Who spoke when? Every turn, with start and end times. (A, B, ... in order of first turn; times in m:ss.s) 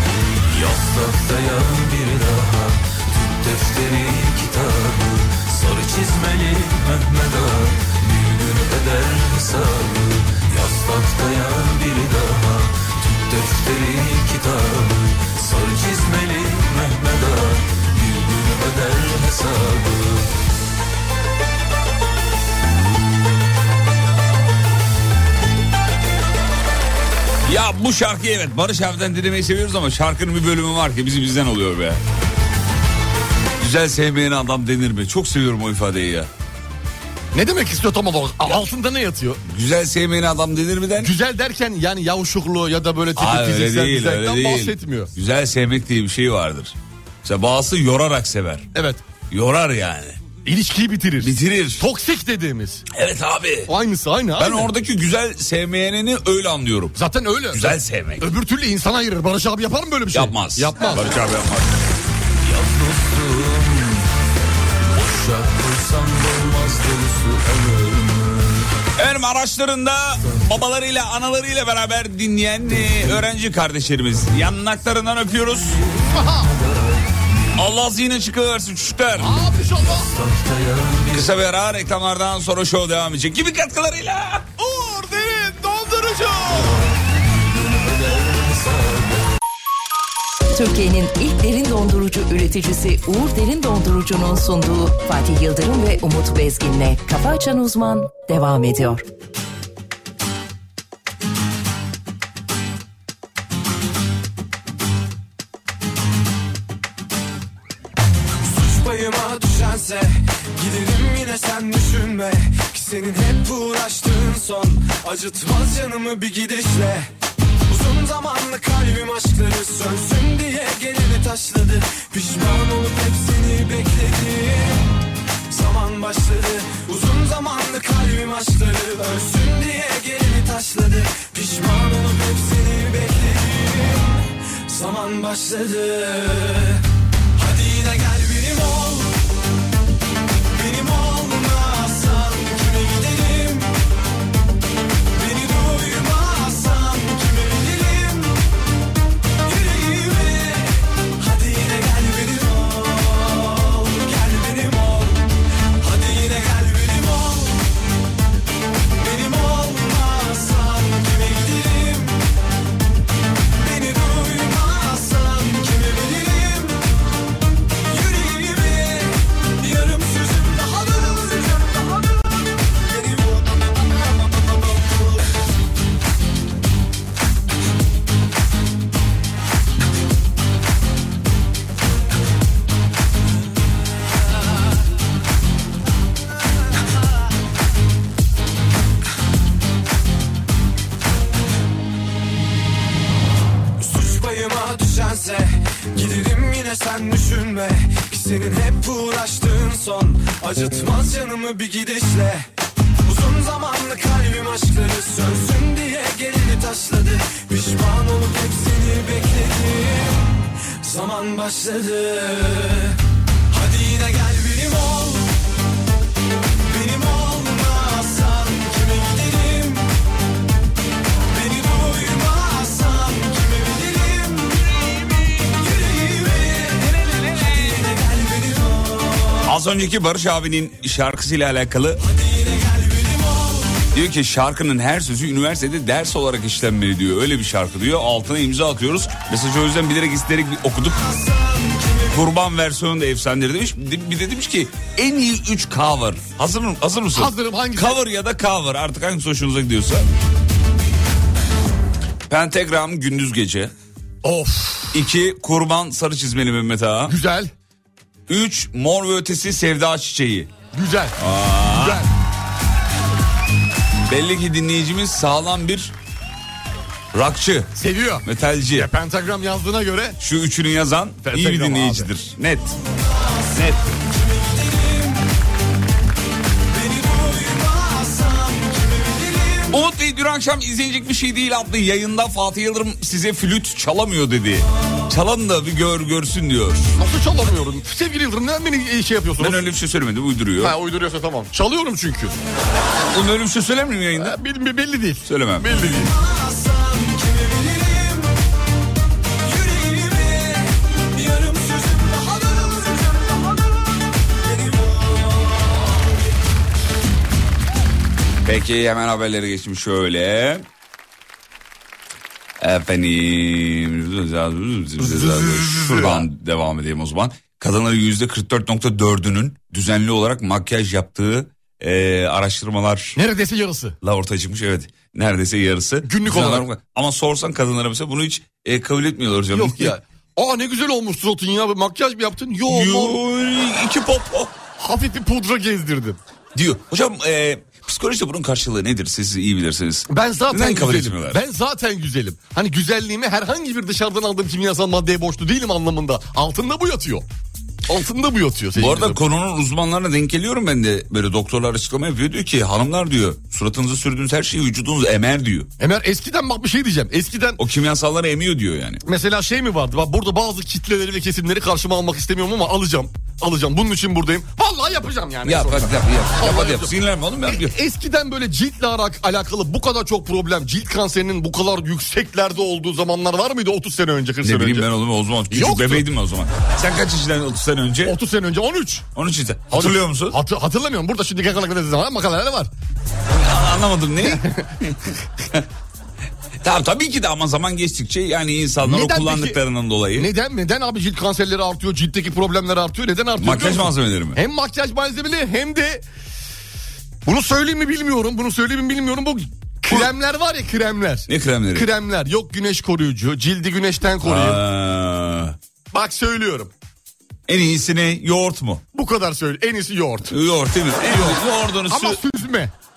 0:00.3-0:20.4 A
0:27.4-0:32.0 B
0:33.6-0:36.3 B
0:37.3-0:39.4 C
0:39.5-0:41.1 B
0:41.0-0:45.1 C
0:43.2-0:48.7 B
0:48.7-0:49.0 C
0:49.3-0:50.2 B
0:50.4-0:52.8 C
0:51.2-0:51.8 B
0:52.9-0:53.7 B
0:53.7-0:54.7 C
0:54.4-0:57.0 B
0:57.0-1:01.2 C
0:57.5-0:58.3 B
1:00.1-1:01.8 B
1:02.4-1:04.1 A
1:04.9-1:08.7 A
1:09.0-1:15.8 B
1:15.7-1:17.2 A
1:16.1-1:16.5 C
1:17.6-1:19.4 B
1:19.2-1:20.1 C
1:19.9-1:21.3 A
1:21.1-1:24.5 B
1:24.6-1:26.8 C
1:26.5-1:29.3 A
1:30.5-1:39.0 D
1:48.4-1:57.1 E
1:57.7-2:04.9 E
2:05.5-2:16.8 E
2:17.4-2:19.2 E
2:20.6-2:23.8 E
2:25.1-2:28.4 E
2:29.4-2:35.3 E
2:35.8-2:37.6 E
2:39.0-2:42.2 E
2:43.6-2:46.8 E
2:47.9-2:55.2 E
3:13.8-3:22.5 E
3:23.0-3:30.3 E
3:30.8-3:33.0 E
3:33.5-3:35.3 E
3:36.7-3:39.9 E
3:41.3-3:49.4 E
3:49.4-3:52.0 B
3:52.0-3:53.7 E
3:53.9-4:01.0 B
4:01.0-4:02.2 E
4:02.1-4:10.1 B
4:07.1-4:08.0 C
4:12.3-4:13.7 B
4:14.2-4:15.0 C
4:14.9-4:17.2 B
4:17.1-4:17.5 C
4:18.3-4:20.5 B
4:20.7-4:21.2 C
4:21.2-4:22.1 B
4:21.7-4:22.1 C
4:24.1-4:25.9 B
4:27.1-4:27.7 B
4:27.8-4:30.2 C
4:28.2-4:28.9 B
4:30.2-4:32.8 B
4:31.2-4:32.1 C
4:33.5-4:33.8 B
4:34.0-4:35.2 E
4:36.7-4:39.8 E
4:39.7-4:46.9 B
4:47.0-4:49.6 C
4:49.4-4:50.8 B
4:50.6-4:52.4 C
4:53.1-4:54.4 B
4:54.2-4:56.1 C
4:55.2-4:55.8 B
4:56.0-4:58.4 E
4:59.4-5:05.9 E
5:08.4-5:10.7 B
5:12.6-5:23.2 B
5:15.0-5:16.2 C
5:23.2-5:24.0 C
5:24.0-5:30.0 B
5:26.0-5:26.7 C
5:29.5-5:33.2 C
5:32.7-5:34.6 B
5:34.8-5:36.2 C
5:36.6-5:41.4 B
5:40.1-5:47.2 C
5:47.9-5:49.2 C
5:48.8-5:55.7 B
5:55.8-5:57.6 C
5:57.6-5:59.0 B
5:59.1-6:06.9 C
6:05.4-6:07.8 B
6:07.5-6:14.9 C
6:14.4-6:18.2 B
6:15.5-6:16.1 C
6:18.1-6:19.1 C
6:19.2-6:20.4 B
6:19.7-6:22.7 C
6:23.3-6:24.9 B
6:24.2-6:24.7 C
6:26.6-6:30.3 B
6:28.8-6:29.6 C
6:30.2-6:36.0 C
6:33.4-6:34.4 B
6:37.2-6:44.6 C
6:41.3-6:41.9 B
6:44.2-6:45.6 B
6:45.9-6:46.7 C
6:47.5-6:48.8 B
6:48.9-6:50.3 C
6:50.3-6:52.2 B
6:51.1-6:52.7 C